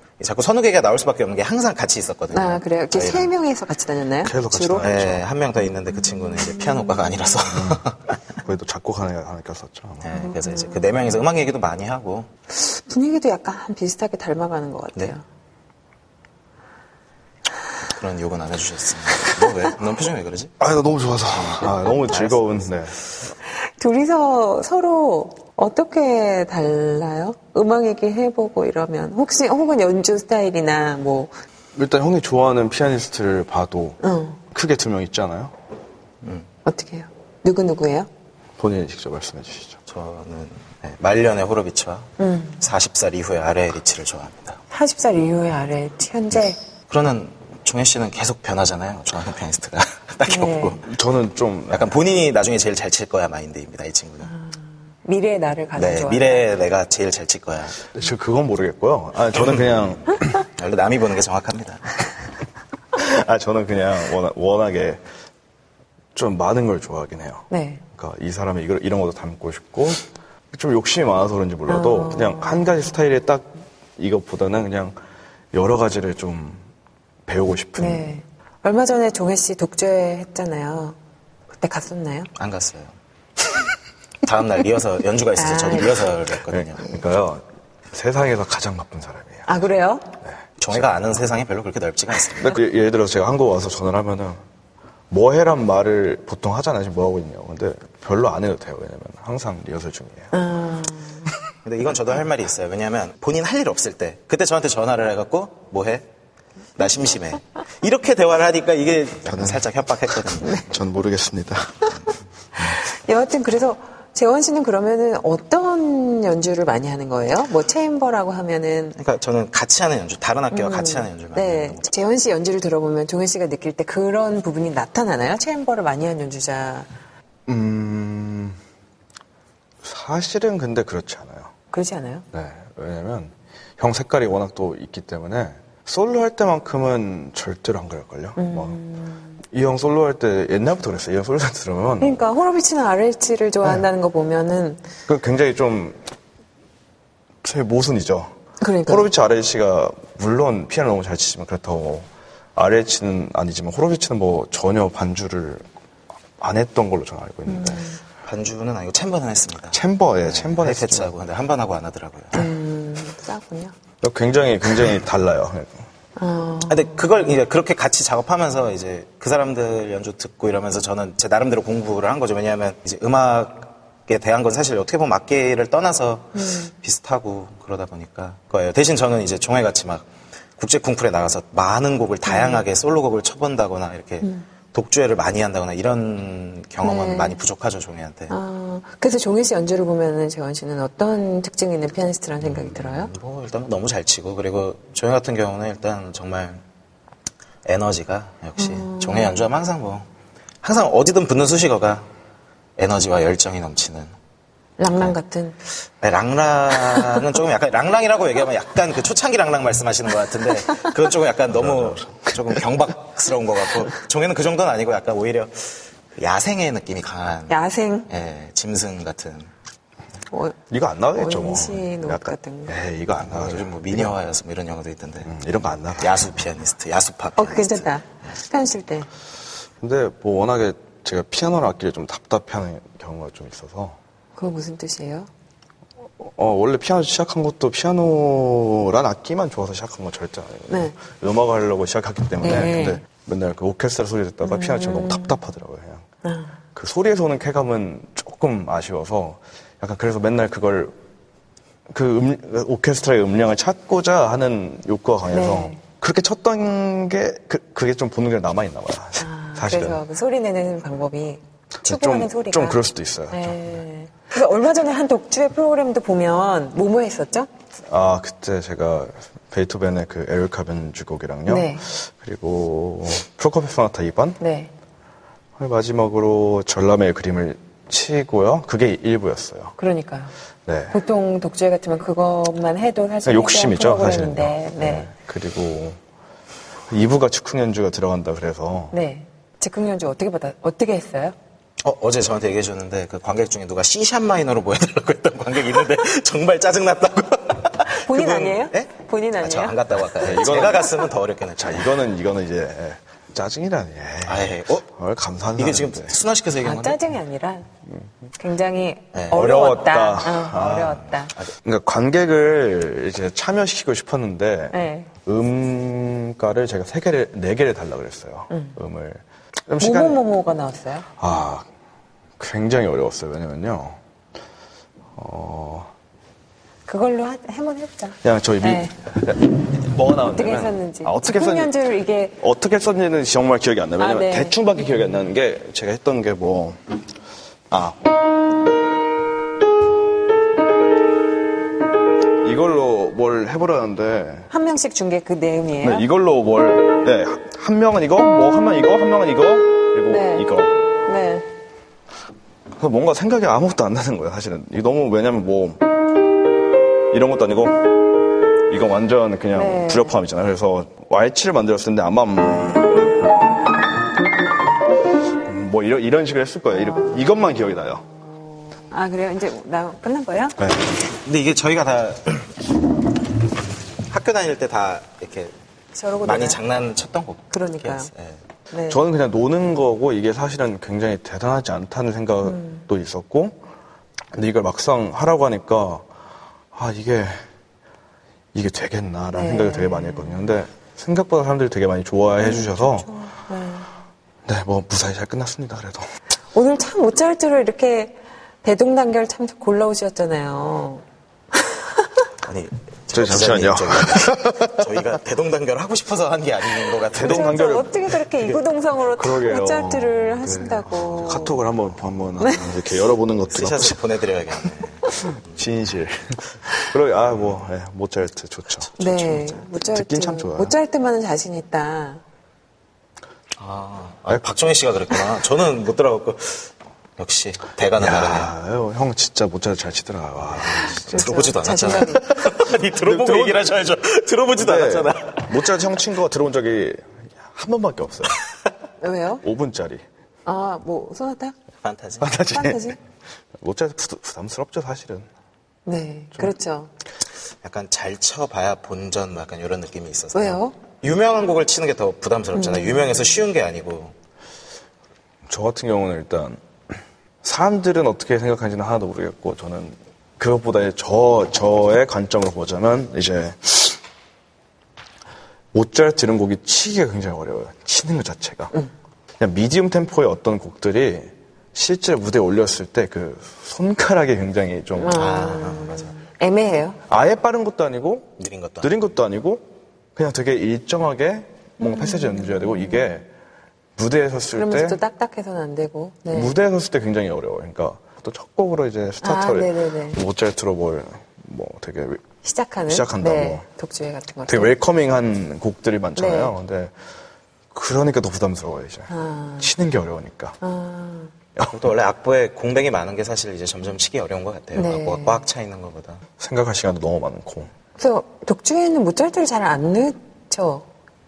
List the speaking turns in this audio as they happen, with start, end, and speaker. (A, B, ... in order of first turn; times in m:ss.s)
0:00.2-0:03.3 A
0:02.3-0:04.9 B
0:04.2-0:05.2 C
0:04.8-0:08.2 A
0:06.1-0:07.4 B
0:07.5-0:07.8 C
0:08.4-0:10.0 C
0:10.0-0:12.3 A
0:10.2-0:10.9 B
0:12.5-0:15.2 B
0:17.9-0:20.5 A
0:20.6-0:23.0 C
0:21.4-0:22.6 A
0:23.8-0:31.3 B
0:31.7-0:34.0 C
0:34.0-0:34.4 B
0:34.5-0:35.5 C
0:36.2-0:36.5 A
0:36.6-0:38.1 B
0:38.6-0:39.8 C
0:39.9-0:44.6 A
0:42.2-0:42.6 B
0:44.7-0:46.6 B
0:46.9-0:50.8 A
0:50.2-0:50.8 B
0:50.8-0:51.9 C
0:51.7-0:54.3 A
0:54.3-0:56.5 B
0:55.8-0:57.8 A
0:57.9-1:00.3 C
1:00.6-1:02.0 A
1:02.9-1:05.0 C
1:06.1-1:15.0 C
1:07.5-1:07.8 B
1:11.7-1:12.7 B
1:15.5-1:16.6 C
1:17.2-1:18.1 C
1:17.8-1:21.0 B
1:21.5-1:22.3 B
1:22.4-1:22.9 A
1:24.2-1:26.8 A
1:25.4-1:26.1 B
1:26.5-1:29.6 C
1:29.5-1:30.1 B
1:30.2-1:30.8 C
1:30.6-1:32.6 A
1:32.4-1:34.4 C
1:35.1-1:40.3 C
1:40.3-1:41.3 B
1:41.6-1:46.0 A
1:46.8-1:50.6 A
1:49.3-1:49.6 C
1:50.6-1:51.9 C
1:52.8-1:59.0 B
1:59.0-2:01.9 A
2:00.5-2:06.9 B
2:07.5-2:08.6 C
2:09.8-2:11.5 C
2:11.7-2:12.2 B
2:12.3-2:18.8 C
2:18.4-2:19.4 B
2:19.5-2:22.2 C
2:22.0-2:24.8 B
2:25.1-2:26.0 C
2:27.4-2:28.3 C
2:28.6-2:29.1 B
2:28.9-2:35.6 C
2:36.4-2:37.8 C
2:37.5-2:38.0 B
2:38.2-2:42.5 A
2:39.7-2:41.1 C
2:42.3-2:43.7 B
2:44.0-2:45.8 C
2:46.2-2:46.9 B
2:46.7-3:00.1 A
2:56.3-2:56.7 B
3:00.6-3:08.3 A
3:02.2-3:02.6 B
3:06.8-3:07.4 B
3:08.3-3:13.1 B
3:12.4-3:16.6 A
3:17.6-3:20.0 A
3:18.6-3:19.4 B
3:20.6-3:22.1 A
3:22.8-3:24.1 A
3:24.8-3:25.6 B
3:24.9-3:25.1 A
3:26.0-3:37.6 A
3:31.6-3:32.6 C
3:37.5-3:38.1 B
3:38.1-3:39.5 A
3:40.3-3:40.6 B
3:40.7-3:44.2 C
3:41.1-3:42.7 B
3:43.3-3:45.3 A
3:45.2-3:46.2 C
3:46.0-3:47.9 A
3:47.4-3:49.1 B
3:49.8-3:54.0 C
3:54.4-3:55.3 B
3:56.2-4:06.0 C
4:00.7-4:01.0 B
4:02.4-4:03.0 B
4:04.4-4:05.4 B
4:06.2-4:06.6 B
4:06.7-4:10.9 C
4:11.9-4:20.0 C
4:15.3-4:15.8 B
4:19.2-4:27.5 B
4:21.8-4:23.6 C
4:27.9-4:34.4 C
4:31.5-4:31.9 B
4:34.4-4:34.7 B
4:35.6-4:39.7 C
4:39.8-4:40.3 B
4:40.6-4:40.9 C
4:40.9-4:45.1 B
4:43.2-4:46.0 C
4:46.9-4:48.9 C
4:48.9-4:51.3 B
4:51.8-4:58.9 A
4:57.9-4:59.8 B
4:59.4-5:02.0 A
5:00.2-5:06.1 C
5:04.2-5:04.8 A
5:05.6-5:07.0 A
5:06.6-5:07.7 B
5:08.4-5:11.3 B
5:09.1-5:09.6 A
5:09.3-5:11.0 C
5:10.7-5:11.5 A
5:11.6-5:20.2 C
5:14.7-5:15.1 B
5:18.5-5:18.8 B
5:19.8-5:21.1 B
5:21.2-5:21.6 C
5:22.4-5:24.0 C
5:25.2-5:25.9 C
5:26.9-5:28.9 B
5:28.2-5:31.7 C
5:30.3-5:32.4 B
5:32.4-5:36.8 C
5:34.0-5:34.6 B
5:37.7-5:38.0 C
5:42.4-5:44.5 C
5:44.5-5:46.1 B
5:45.8-5:50.7 C
5:50.1-5:50.5 B
5:51.0-5:51.4 B
5:52.8-5:55.8 C
5:57.1-5:57.9 C
5:58.7-6:03.0 C
5:59.5-6:00.2 B
6:05.4-6:08.0 C
6:08.9-6:10.6 B
6:10.6-6:10.9 C
6:11.2-6:12.5 A
6:14.1-6:15.5 A
6:15.9-6:16.6 B
6:16.2-6:18.4 A
6:17.5-6:18.1 B
6:18.7-6:19.0 B
6:18.9-6:23.6 C
6:22.4-6:22.8 B
6:24.3-6:26.1 C
6:26.7-6:27.4 C
6:28.5-6:33.1 C
6:29.3-6:30.5 B
6:32.4-6:33.9 B
6:34.4-6:36.1 C
6:36.5-6:42.2 B
6:42.4-6:47.6 A
6:43.1-6:44.8 C
6:47.1-6:48.0 C
6:47.2-6:51.6 B
6:48.3-6:48.6 A
6:49.1-6:54.0 C
6:52.4-6:52.7 B
6:53.5-6:55.6 A
6:55.2-6:58.9 C
6:58.8-6:59.6 A
6:59.0-7:02.2 B
6:59.8-7:00.7 C
7:03.6-7:08.5 A
7:08.0-7:11.2 C
7:10.6-7:15.8 A
7:11.0-7:12.3 B
7:12.6-7:13.7 C
7:14.6-7:18.4 C
7:19.0-7:19.4 B
7:19.4-7:20.0 C
7:20.4-7:21.5 B
7:21.8-7:22.3 A
7:22.2-7:22.9 C
7:22.5-7:23.0 B
7:23.5-7:25.3 C
7:25.8-7:26.9 B
7:27.6-7:34.1 A
7:30.3-7:30.7 B
7:32.5-7:33.4 B
7:35.5-7:36.6 C
7:37.4-7:44.0 C
7:45.7-7:48.7 C
7:49.4-7:55.2 C
7:55.0-7:57.0 B
7:55.1-7:56.1 A
7:57.1-8:03.3 C
7:58.4-7:58.9 A
8:01.8-8:03.1 B
8:04.0-8:05.0 C
8:04.5-8:06.5 B
8:06.3-8:12.2 C
8:09.2-8:10.2 B
8:12.4-8:14.7 B
8:12.9-8:13.6 C
8:14.5-8:16.9 C
8:16.2-8:16.5 B
8:17.7-8:20.6 C
8:19.1-8:19.7 B
8:20.6-8:21.3 B
8:21.6-8:21.8 C
8:21.7-8:26.2 A
8:24.7-8:25.4 B
8:26.4-8:27.7 C
8:28.0-8:30.8 B